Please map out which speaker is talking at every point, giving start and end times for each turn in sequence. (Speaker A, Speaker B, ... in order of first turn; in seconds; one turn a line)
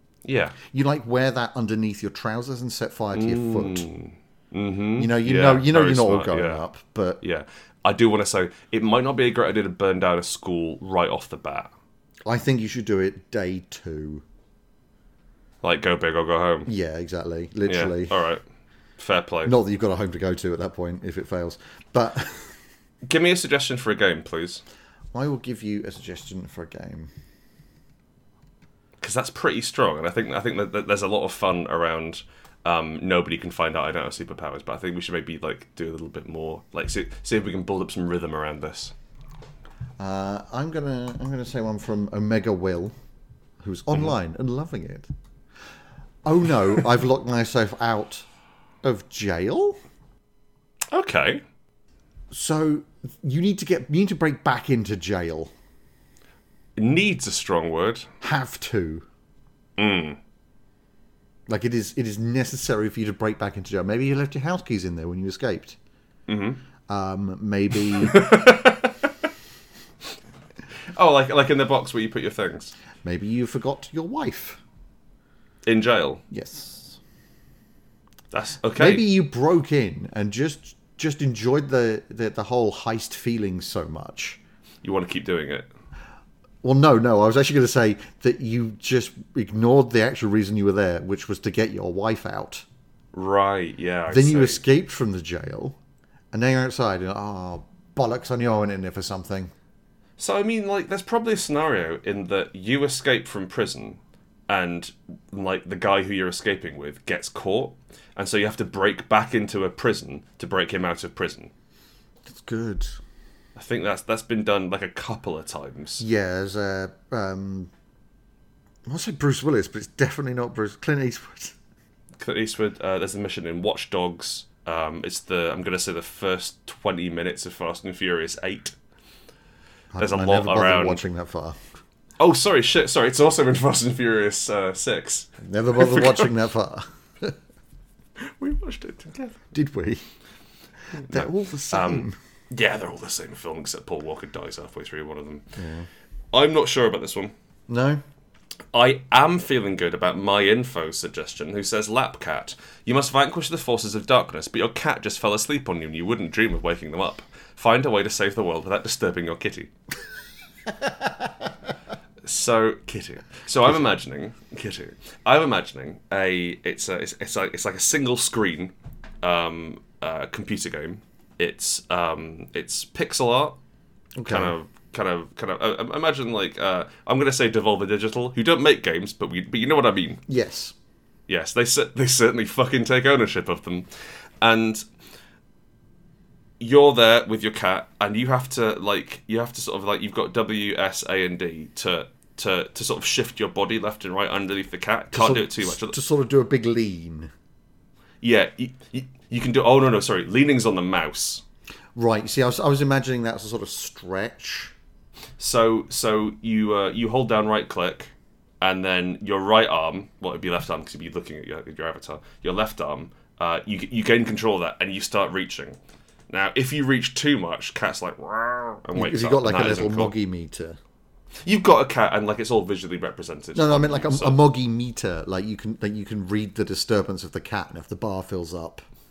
Speaker A: 0.2-0.6
Speaker B: 0.7-3.9
Speaker A: 3.1-6.6
Speaker B: 5.0-7.2
Speaker A: 7.2-11.7
Speaker B: 12.2-14.2
Speaker A: 15.6-16.7
Speaker B: 16.7-18.2
Speaker A: 17.7-18.4
Speaker A: 19.0-19.5
Speaker B: 19.4-22.6
Speaker A: 23.1-24.6
Speaker B: 25.1-27.1
Speaker A: 29.0-38.9
Speaker B: 40.0-42.9
Speaker B: 43.6-45.1
Speaker B: 46.2-48.2
Speaker B: 48.8-49.8
Speaker A: 50.9-51.4
Speaker B: 52.3-55.5
Speaker A: 56.8-58.1
Speaker B: 58.2-59.0
Speaker A: 59.8-60.2
Speaker B: 61.5-65.8
Speaker A: 66.3-66.6
Speaker B: 66.9-68.3
Speaker A: 68.0-69.1
Speaker A: 70.9-72.7
Speaker B: 73.0-74.6
Speaker A: 75.7-76.2
Speaker B: 76.3-77.0
Speaker A: 78.3-79.1
Speaker B: 78.8-84.4
Speaker A: 84.8-85.7
Speaker B: 86.6-92.6
Speaker A: 93.1-94.6
Speaker B: 94.1-95.8
Speaker B: 96.3-99.5
Speaker A: 100.2-111.5
Speaker B: 112.2-113.0
Speaker A: 113.5-116.0
Speaker B: 116.0-117.7
Speaker B: 118.8-121.5
Speaker A: 122.2-128.8
Speaker B: 129.9-131.6
Speaker A: 130.0-131.0
Speaker A: 132.2-136.2
Speaker B: 135.4-137.3
Speaker A: 138.2-139.4
Speaker B: 139.5-140.0
Speaker A: 141.0-145.6
Speaker B: 141.0-142.2
Speaker B: 145.6-145.9
Speaker A: 146.3-147.3
Speaker B: 147.7-148.0
Speaker A: 148.7-159.7
Speaker A: 162.2-173.6
Speaker B: 174.2-174.5
Speaker A: 174.2-180.2
Speaker B: 180.3-180.7
Speaker A: 181.3-183.9
Speaker A: 184.4-184.8
Speaker A: 186.6-196.0
Speaker B: 195.1-197.3
Speaker A: 198.2-201.4
Speaker B: 201.9-204.7
Speaker A: 205.4-215.8
Speaker A: 216.3-220.1
Speaker B: 218.9-220.8
Speaker A: 221.4-224.4
Speaker B: 223.5-228.8